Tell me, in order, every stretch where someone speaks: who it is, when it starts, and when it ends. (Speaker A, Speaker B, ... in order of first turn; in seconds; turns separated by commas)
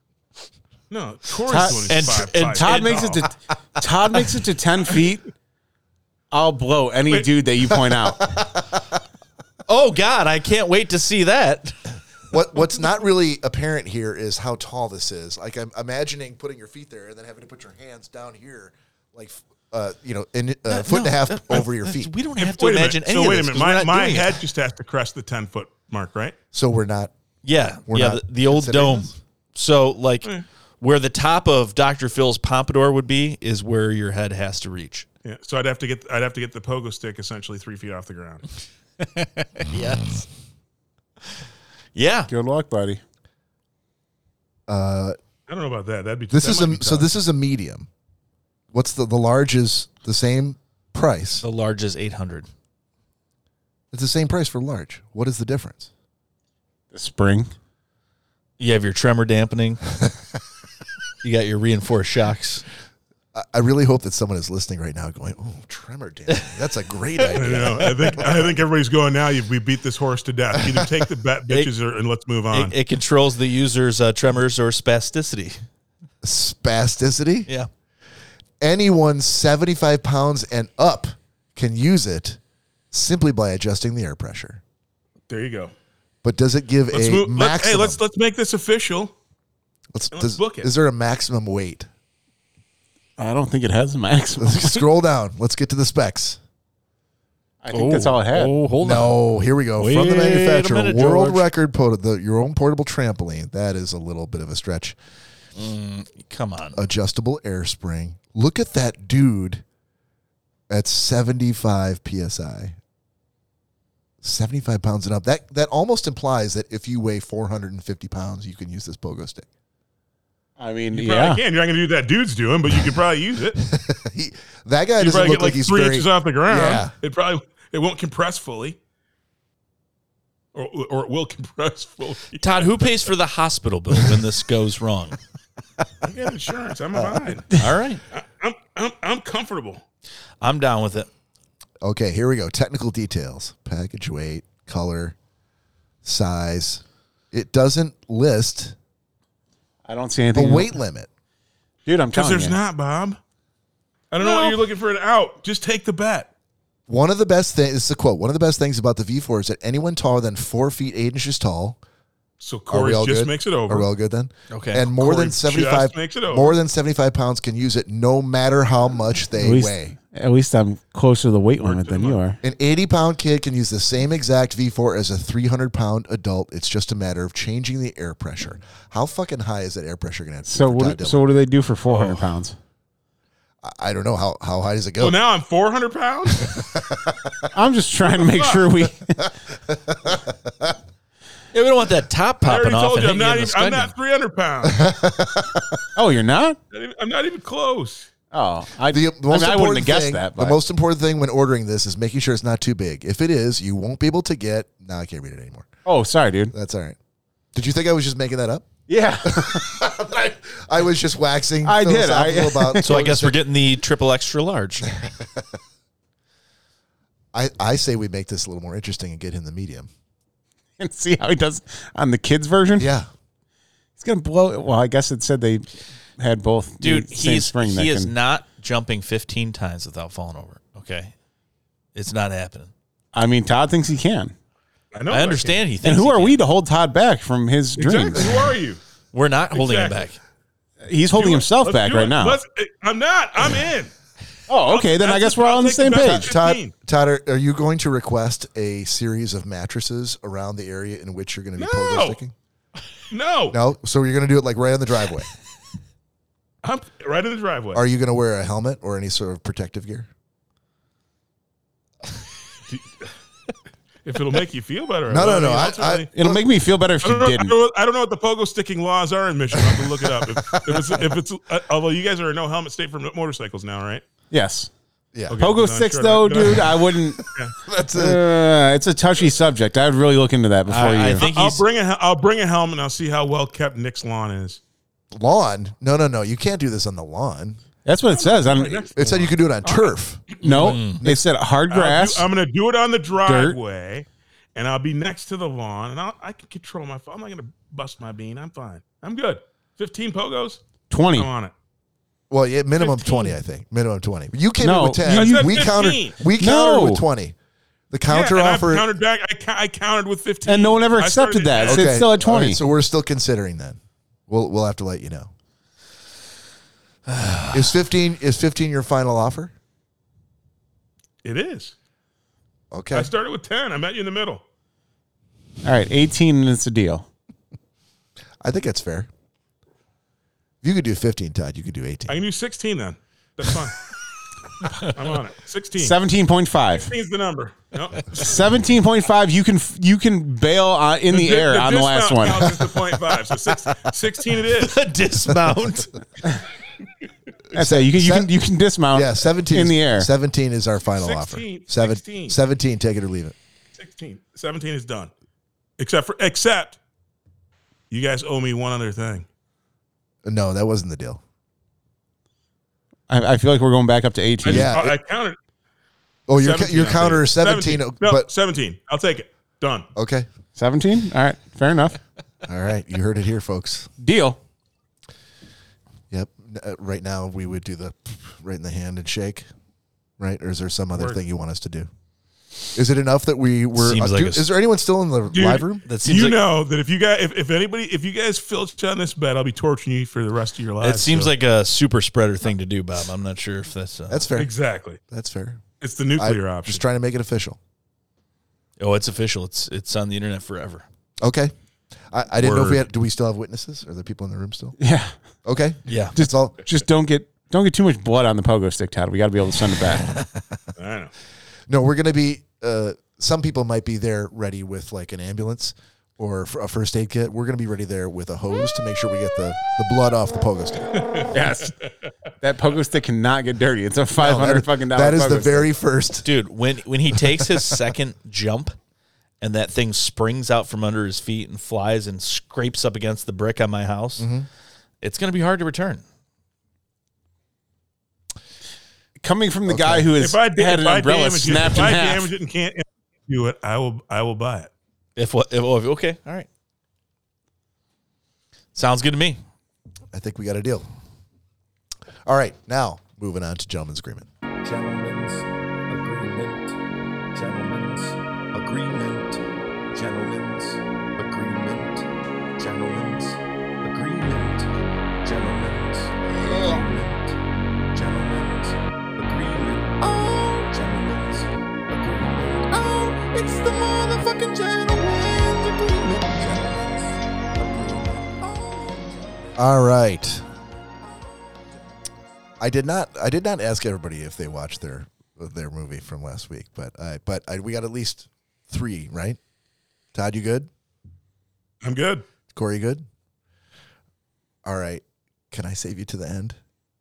Speaker A: 0.9-3.2, Speaker B: 1.5-5.3, Speaker C: 1.9-3.1, Speaker B: 6.3-8.3, Speaker D: 7.8-8.8, Speaker C: 9.7-11.8, Speaker D: 12.3-22.1, Speaker C: 20.7-24.4, Speaker A: 22.4-26.3, Speaker D: 26.5-27.1, Speaker C: 27.4-35.0, Speaker D: 27.9-29.2, Speaker A: 35.2-38.5, Speaker C: 39.0-40.2, Speaker C: 41.9-42.3, Speaker B: 42.3-43.0, Speaker D: 44.7-45.2, Speaker A: 45.5-47.1, Speaker D: 46.3-47.9, Speaker D: 48.7-51.4, Speaker C: 51.4-52.5, Speaker D: 53.9-55.9, Speaker B: 56.9-57.5, Speaker C: 58.6-59.8, Speaker C: 61.2-62.6, Speaker D: 63.3-68.4, Speaker A: 67.3-72.7, Speaker D: 70.6-70.8, Speaker C: 72.5-75.6, Speaker D: 76.2-77.5, Speaker D: 78.6-82.4, Speaker D: 82.9-84.6, Speaker A: 85.3-85.7, Speaker D: 86.2-88.0, Speaker A: 86.9-89.1, Speaker D: 89.9-91.9, Speaker A: 90.1-90.7, Speaker B: 93.2-94.8, Speaker D: 94.4-96.4, Speaker B: 97.6-98.5, Speaker C: 97.7-99.2, Speaker D: 98.8-105.0, Speaker C: 99.8-101.5, Speaker C: 105.5-106.8, Speaker D: 106.7-109.6, Speaker D: 110.7-112.8, Speaker D: 114.2-119.5, Speaker B: 120.6-121.4, Speaker A: 120.9-123.6, Speaker D: 123.5-126.9, Speaker A: 125.0-128.8, Speaker A: 130.5-132.8, Speaker C: 132.4-135.2, Speaker A: 136.0-137.4, Speaker D: 136.9-137.4, Speaker C: 137.6-138.0, Speaker A: 138.1-139.8, Speaker C: 140.4-141.1, Speaker D: 141.8-145.2, Speaker D: 146.0-148.8, Speaker B: 149.8-150.7, Speaker D: 150.3-151.1, Speaker B: 151.8-152.6, Speaker A: 152.1-153.2, Speaker A: 154.1-156.3, Speaker D: 156.9-161.8, Speaker A: 162.4-163.9, Speaker D: 162.7-169.9, Speaker C: 164.5-164.9, Speaker A: 165.0-166.6, Speaker B: 169.4-172.4, Speaker A: 171.6-172.2, Speaker D: 172.4-181.3, Speaker B: 180.5-182.6, Speaker A: 181.9-182.2, Speaker D: 183.6-185.2, Speaker A: 185.0-186.6, Speaker D: 186.3-187.5, Speaker B: 187.5-189.3, Speaker A: 188.0-188.7, Speaker D: 189.2-190.8, Speaker C: 191.5-193.9, Speaker A: 192.4-194.8, Speaker D: 194.6-195.8, Speaker B: 195.9-196.6, Speaker A: 196.7-198.1, Speaker B: 198.3-200.6, Speaker D: 198.9-205.7, Speaker B: 205.8-206.5, Speaker D: 206.5-207.0, Speaker D: 207.5-208.7, Speaker B: 208.9-209.7, Speaker D: 209.2-213.4, Speaker B: 211.6-212.9, Speaker C: 212.8-214.9, Speaker D: 214.9-215.4, Speaker D: 217.3-219.9, Speaker B: 220.8-222.9, Speaker D: 222.8-223.1, Speaker B: 224.0-228.1, Speaker C: 226.8-231.1, Speaker C: 231.9-232.7, Speaker B: 233.1-234.3, Speaker A: 234.9-235.6, Speaker C: 235.1-236.4, Speaker B: 235.8-238.5, Speaker A: 237.8-238.8, Speaker C: 239.1-240.2, Speaker A: 239.5-240.1, Speaker B: 240.9-242.4, Speaker A: 241.1-243.9, Speaker B: 244.5-246.3, Speaker A: 244.7-246.7, Speaker D: 246.1-252.3, Speaker A: 251.6-252.2, Speaker A: 253.1-253.6, Speaker D: 253.5-255.3, Speaker A: 256.6-257.8, Speaker D: 257.7-260.1, Speaker A: 262.7-263.1, Speaker A: 264.0-266.1, Speaker D: 265.1-266.4, Speaker B: 266.1-267.5, Speaker A: 267.0-274.0, Speaker D: 269.6-271.1, Speaker B: 274.3-274.7, Speaker D: 275.1-275.4, Speaker A: 275.3-277.5, Speaker B: 275.4-277.2, Speaker D: 277.6-278.2, Speaker B: 277.9-281.3, Speaker C: 280.7-281.6, Speaker A: 281.2-284.6, Speaker D: 285.1-287.6, Speaker B: 287.8-289.3, Speaker A: 288.1-290.4, Speaker D: 288.9-291.3, Speaker B: 290.4-292.3, Speaker C: 290.4-291.0, Speaker A: 291.7-300.6, Speaker B: 293.2-293.6, Speaker B: 300.9-301.3, Speaker A: 301.1-301.5, Speaker D: 302.3-307.4, Speaker A: 302.8-303.3, Speaker B: 304.6-305.8, Speaker A: 305.1-306.2, Speaker B: 306.4-307.0, Speaker D: 307.9-308.9, Speaker A: 308.1-312.0, Speaker B: 310.5-312.6, Speaker D: 311.6-315.3, Speaker C: 317.1-317.7, Speaker D: 317.5-319.5, Speaker A: 321.2-321.7, Speaker D: 322.7-323.1, Speaker A: 322.9-324.4, Speaker B: 325.6-327.1, Speaker D: 328.4-329.1, Speaker D: 330.6-332.2, Speaker A: 332.1-333.8, Speaker A: 334.9-335.9, Speaker B: 335.8-336.9, Speaker A: 336.7-338.3, Speaker B: 338.1-342.6, Speaker A: 341.1-344.8, Speaker C: 344.6-345.9, Speaker D: 347.5-348.3, Speaker B: 347.5-350.1, Speaker D: 348.9-353.3, Speaker A: 350.9-352.4, Speaker A: 353.8-355.1, Speaker A: 355.8-356.8, Speaker A: 357.9-359.2, Speaker D: 360.2-361.2, Speaker B: 363.1-364.7, Speaker A: 364.4-365.4, Speaker D: 364.4-364.9, Speaker D: 366.3-368.3, Speaker A: 366.4-369.9, Speaker D: 369.9-370.3, Speaker B: 370.6-372.0, Speaker D: 372.4-373.9, Speaker B: 374.0-374.4, Speaker D: 376.1-379.5, Speaker D: 380.2-381.9, Speaker A: 380.9-381.2, Speaker D: 382.7-385.8, Speaker C: 383.8-384.5, Speaker A: 385.3-391.3, Speaker C: 385.8-386.4, Speaker C: 390.8-394.3, Speaker D: 394.1-394.5, Speaker A: 394.4-395.0, Speaker D: 395.1-395.6, Speaker A: 395.8-396.8, Speaker D: 396.1-397.6, Speaker C: 398.8-400.8, Speaker D: 401.2-401.5, Speaker D: 402.1-404.8, Speaker A: 402.4-402.8, Speaker B: 404.8-405.1, Speaker D: 405.4-406.6, Speaker C: 405.9-406.1, Speaker B: 406.1-410.1, Speaker A: 410.8-411.1, Speaker D: 411.7-420.9, Speaker A: 421.0-421.3, Speaker B: 421.3-421.7, Speaker B: 422.4-425.7, Speaker D: 424.2-426.3, Speaker C: 426.2-428.7, Speaker D: 427.3-427.6, Speaker C: 429.4-434.3, Speaker D: 434.2-434.5, Speaker C: 435.0-436.0, Speaker B: 439.2-442.3, Speaker D: 439.7-440.1, Speaker A: 440.2-444.7, Speaker C: 445.1-446.5, Speaker C: 448.7-449.4, Speaker D: 450.1-450.9, Speaker D: 452.2-454.3, Speaker E: 454.6-456.8, Speaker E: 457.3-464.7, Speaker E: 465.2-467.4, Speaker E: 467.9-479.5, Speaker D: 479.6-480.4, Speaker D: 482.6-489.4, Speaker D: 490.1-490.7, Speaker A: 491.8-492.2, Speaker D: 492.5-493.0, Speaker D: 494.6-496.6